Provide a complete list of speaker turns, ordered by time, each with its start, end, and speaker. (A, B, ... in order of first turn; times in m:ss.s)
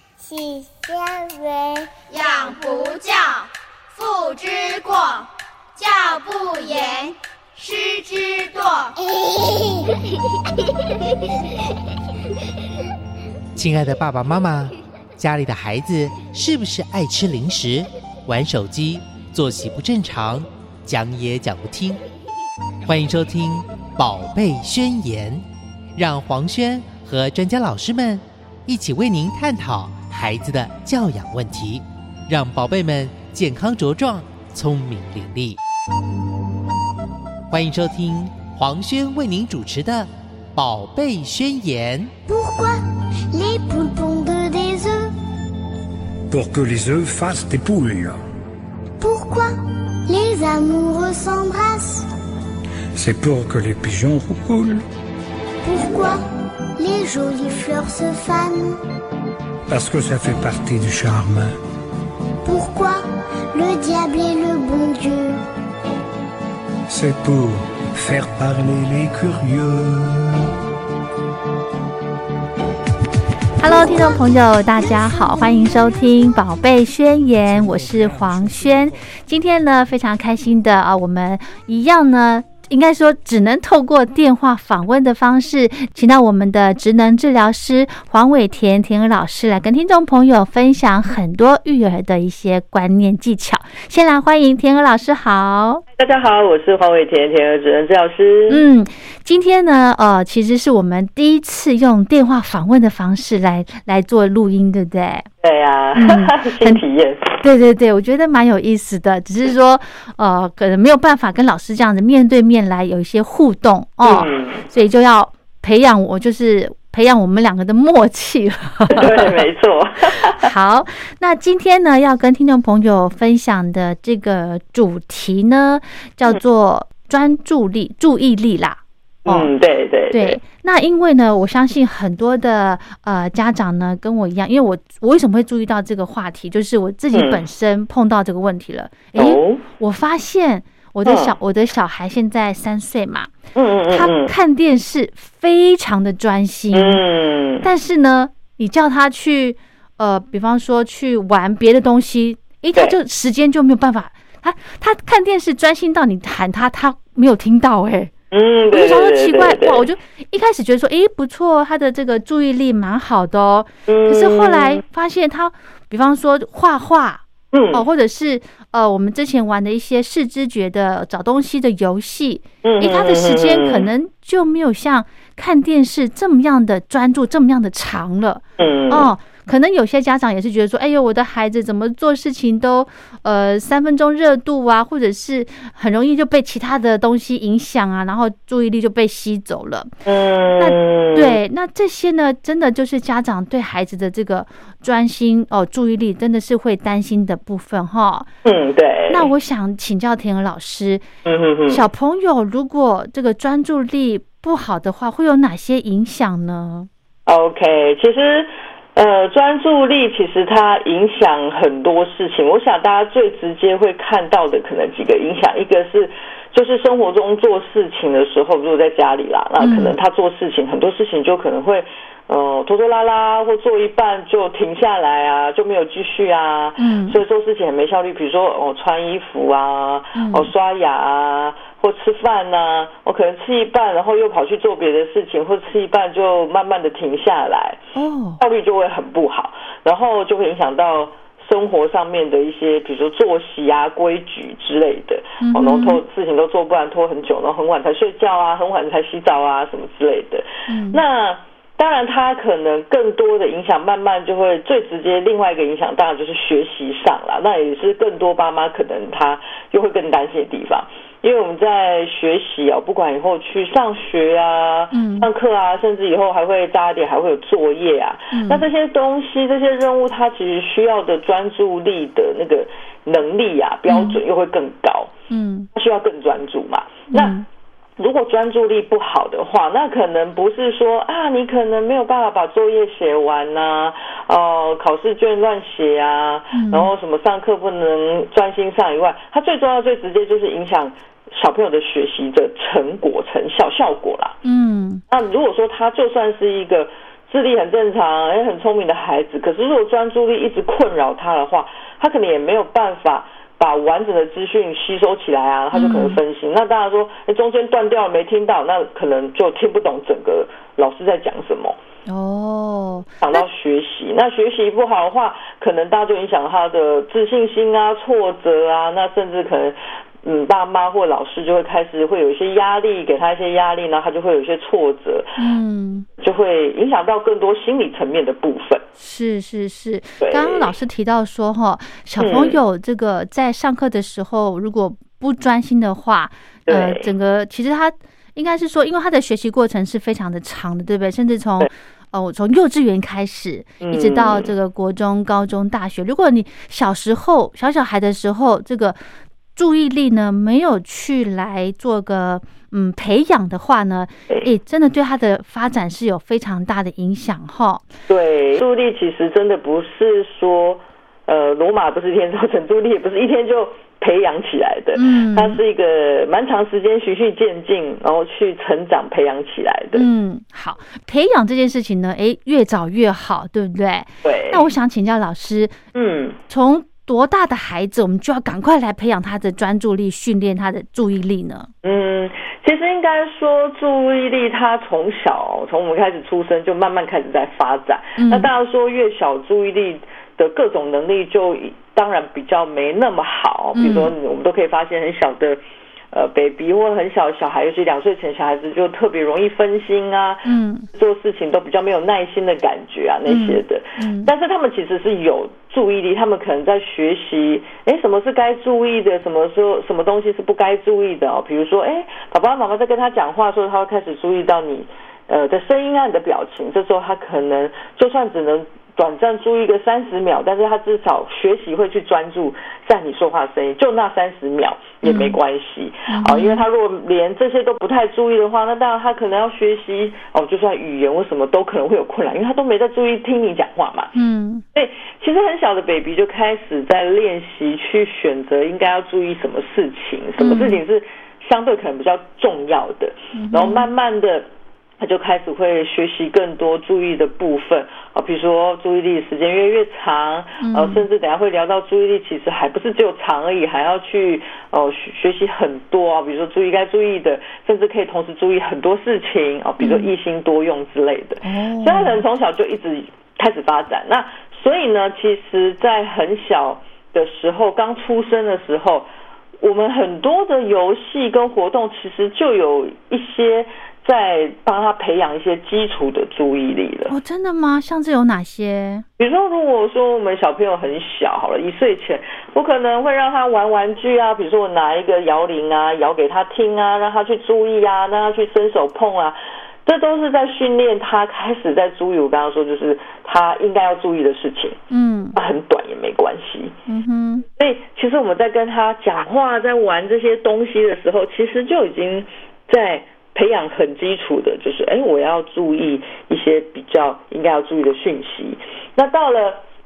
0:00.2-0:01.9 A
0:02.1-0:08.9 B
0:09.1-0:09.8 A
0:13.6-0:22.0 C
0:22.9-0:25.4 C
0:26.0-0:35.6 C
0:37.5-0:42.1 C
0:42.3-0:42.8 A
0:43.3-0:45.2 A
0:46.3-0:48.2 D
0:49.0-0:49.6 A
0:50.1-0:52.1 A
0:53.0-0:54.8 D
0:55.6-0:56.2 A
0:56.8-0:58.8 A
0:59.7-1:01.6 D
1:02.4-1:05.4 A
1:06.9-1:10.5 D
1:13.6-1:35.8 E
1:36.0-1:38.7 F
1:38.5-1:45.3 E
1:45.4-1:47.4 F
1:46.0-1:46.8 E
1:47.4-1:59.3 E
1:54.0-1:54.7 F
1:58.9-2:00.5 F
2:00.4-2:09.5 E
2:09.2-2:10.4 F
2:10.1-2:23.3 E
2:17.1-2:17.5 F
2:19.2-2:19.6 F
2:21.0-2:21.4 F
2:23.6-2:24.3 F
2:23.9-2:27.0 E
2:26.7-2:27.7 F
2:27.6-2:38.1 E
2:38.3-2:39.9 F
2:38.7-3:09.9 E
2:43.9-2:44.8 F
2:47.5-2:47.9 F
2:52.6-2:53.9 F
2:58.6-2:59.1 F
3:10.0-3:11.4 F
3:10.6-3:18.3 E
3:18.4-3:19.3 F
3:19.1-3:21.0 E
3:21.2-3:21.9 F
3:21.7-3:26.9 E
3:27.3-3:57.8 F
3:39.6-3:40.0 E
3:46.8-3:47.2 E
3:50.2-3:50.5 E
3:58.0-3:58.4 E
3:58.4-4:35.1 F
4:05.4-4:06.0 E
4:10.7-4:11.0 E
4:24.9-4:25.3 E
4:28.3-4:28.6 E
4:33.9-4:34.2 E
4:35.3-4:35.7 E
4:35.7-4:37.4 F
4:37.1-4:37.4 E
4:38.0-4:54.4 F
4:46.5-4:46.9 E
4:54.4-4:55.0 E
4:55.1-5:11.8 F
5:05.7-5:06.2 E
5:12.1-5:13.4 E
5:13.2-5:25.4 F
5:25.4-5:26.1 E
5:26.2-5:28.8 F
5:29.0-5:49.0 E
5:30.2-5:30.7 F
5:32.2-5:32.6 F
5:36.7-5:37.1 F
5:43.8-5:44.5 F
5:49.6-5:57.9 E
5:58.1-6:10.1 F
6:05.0-6:05.6 E
6:09.9-6:15.8 E
6:14.2-6:14.7 F
6:15.9-6:16.4 F
6:16.5-6:21.7 E
6:21.8-6:35.6 F
6:28.2-6:28.5 E
6:33.8-6:34.1 E
6:36.1-7:14.1 F
6:40.4-6:40.9 E
6:43.3-6:44.3 E
7:05.0-7:05.4 E
7:06.1-7:06.6 E
7:14.2-7:14.6 E
7:14.7-7:24.5 F
7:20.4-7:20.8 E
7:23.3-7:23.8 E
7:25.0-7:49.1 F
7:30.6-7:31.0 E
7:39.8-7:40.1 E
7:41.4-7:42.2 E
7:49.6-7:57.2 F
7:57.1-7:59.0 E
7:59.2-8:14.8 F
8:14.9-8:15.4 E
8:15.4-8:16.8 F
8:16.9-8:17.4 E
8:17.4-8:29.6 F